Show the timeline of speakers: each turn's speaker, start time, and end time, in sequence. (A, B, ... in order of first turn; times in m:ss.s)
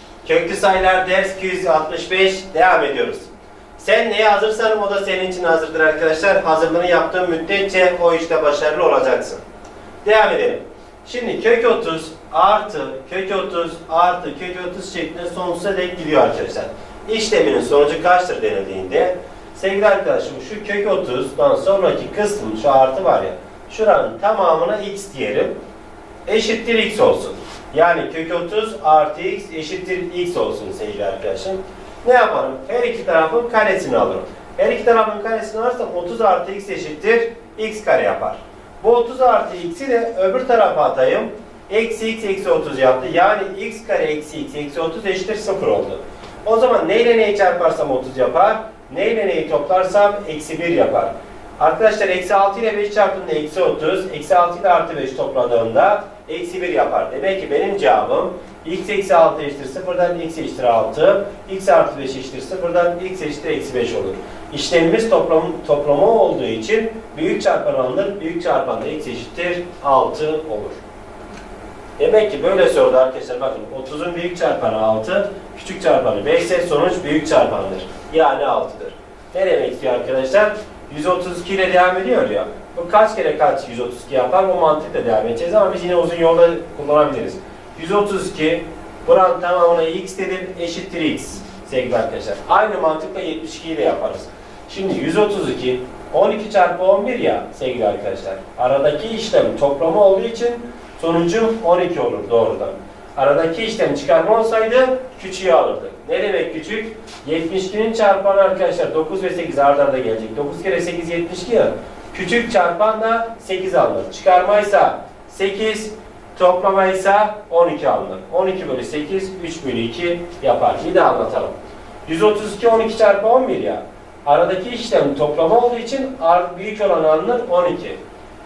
0:00.2-0:09.4 A
0:10.0-0:25.5 A
0:26.2-1:10.8 A
1:12.0-2:08.0 A